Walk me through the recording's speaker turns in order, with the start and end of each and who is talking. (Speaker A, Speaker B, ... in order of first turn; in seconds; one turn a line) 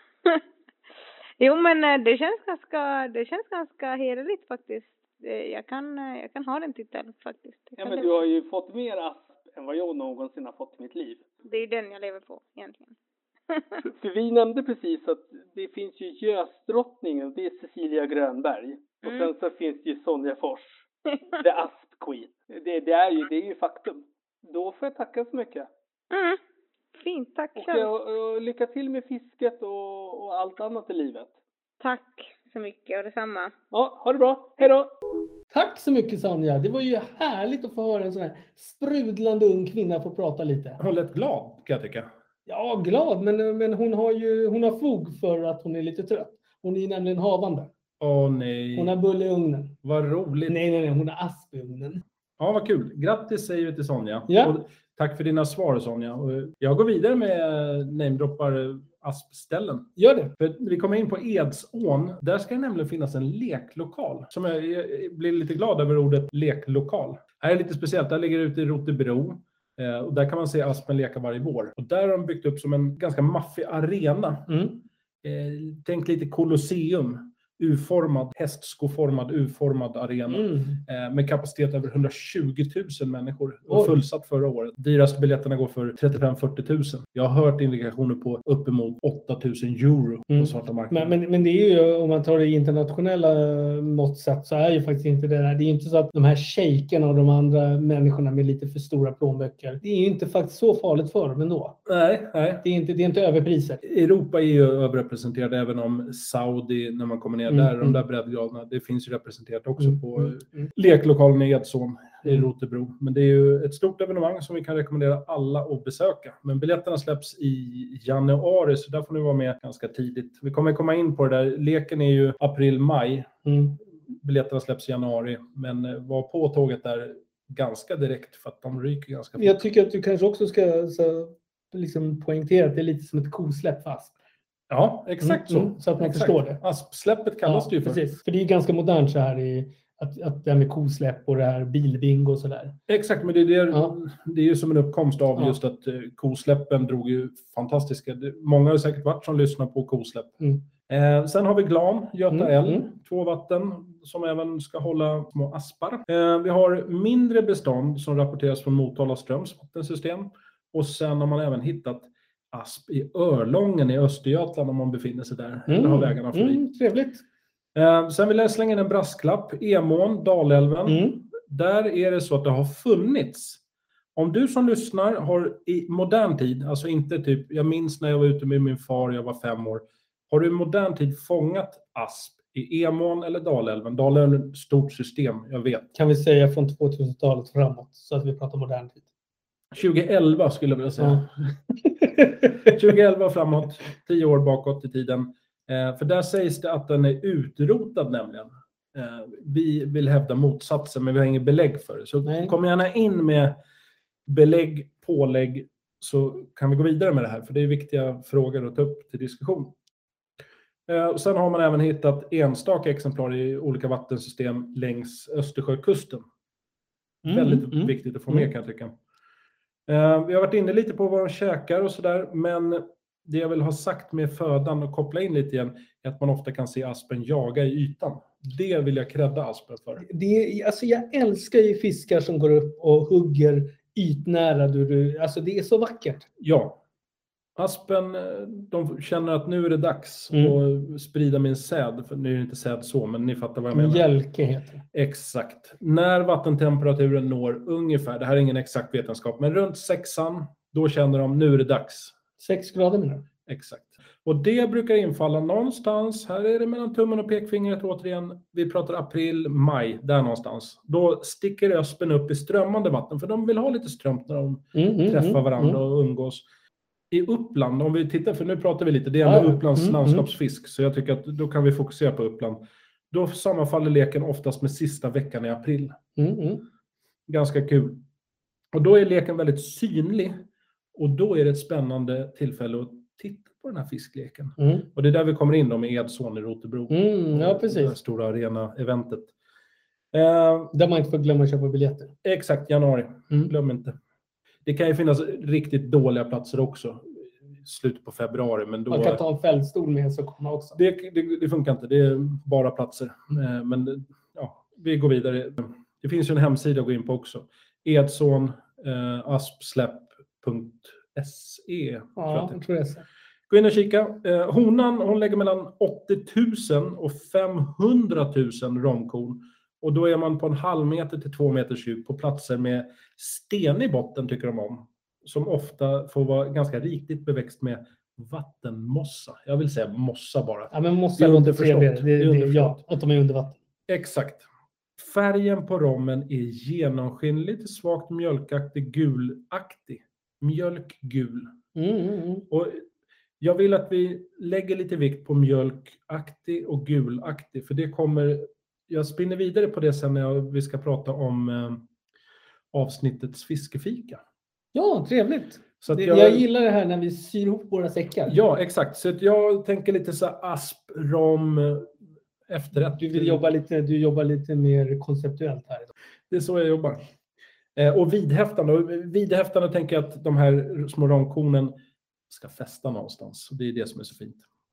Speaker A: 1.4-8.2
Speaker B: 7.8-11.3
Speaker A: 11.4-12.9
Speaker A: 13.5-13.8
Speaker B: 13.8-20.8
Speaker B: 21.4-25.7
Speaker A: 26.1-26.4
Speaker A: 27.0-27.9
Speaker B: 27.6-31.3
Speaker A: 31.8-33.5
Speaker B: 33.7-34.9
Speaker C: 35.5-40.8
Speaker D: 40.8-42.1
Speaker C: 42.5-47.7
Speaker D: 48.0-48.9
Speaker C: 48.8-49.8
Speaker D: 49.8-50.6
Speaker C: 50.5-52.0
Speaker D: 52.4-74.6
Speaker C: 54.3-54.6
Speaker C: 60.0-60.4
Speaker C: 74.5-74.8
Speaker D: 75.2-91.2
Speaker C: 80.3-80.8
Speaker C: 83.7-84.0
Speaker C: 90.3-101.8
Speaker D: 101.9-102.7
Speaker C: 102.6-103.8
Speaker D: 103.8-123.3
Speaker C: 107.5-108.0
Speaker C: 109.8-110.7
Speaker C: 123.5-123.8
Speaker D: 124.1-129.6
Speaker C: 129.4-134.2
Speaker D: 134.7-138.0
Speaker C: 135.2-136.6
Speaker C: 137.4-142.8
Speaker D: 142.9-166.6
Speaker C: 152.3-152.9
Speaker C: 165.7-167.2
Speaker D: 167.8-173.6
Speaker C: 170.9-171.2
Speaker D: 174.2-185.9
Speaker C: 185.9-189.1
Speaker D: 189.7-191.3
Speaker C: 191.0-191.2
Speaker D: 192.6-203.6
Speaker C: 202.2-202.6
Speaker D: 204.3-209.7
Speaker D: 210.9-216.2
Speaker C: 217.2-218.5
Speaker D: 217.3-218.9
Speaker D: 219.9-230.1
Speaker C: 230.0-236.3
Speaker D: 236.4-236.8
Speaker D: 237.6-244.1
Speaker C: 240.3-240.6
Speaker C: 243.7-244.8
Speaker D: 244.9-252.2
Speaker C: 252.4-253.3
Speaker D: 253.5-266.4
Speaker C: 264.8-265.8
Speaker D: 267.1-276.0
Speaker C: 269.2-270.3
Speaker C: 276.2-276.7
Speaker D: 277.3-278.0
Speaker D: 278.7-280.4
Speaker D: 280.9-289.3
Speaker C: 284.6-284.9
Speaker C: 286.9-288.0
Speaker D: 290.1-290.7
Speaker C: 290.7-292.1
Speaker D: 292.2-294.0
Speaker D: 294.6-299.2
Speaker C: 298.9-300.8
Speaker D: 300.8-312.6
Speaker C: 312.2-313.1
Speaker D: 313.5-332.8
Speaker C: 330.7-333.6
Speaker D: 333.9-334.4
Speaker D: 335.0-341.5
Speaker C: 341.8-342.5
Speaker D: 342.5-342.8
Speaker D: 343.4-351.8
Speaker D: 352.7-354.2
Speaker C: 354.7-358.4
Speaker D: 355.8-356.4
Speaker D: 358.3-361.9
Speaker D: 362.5-363.4
Speaker C: 362.9-365.9
Speaker D: 366.3-367.0
Speaker D: 367.8-371.8
Speaker D: 372.3-374.4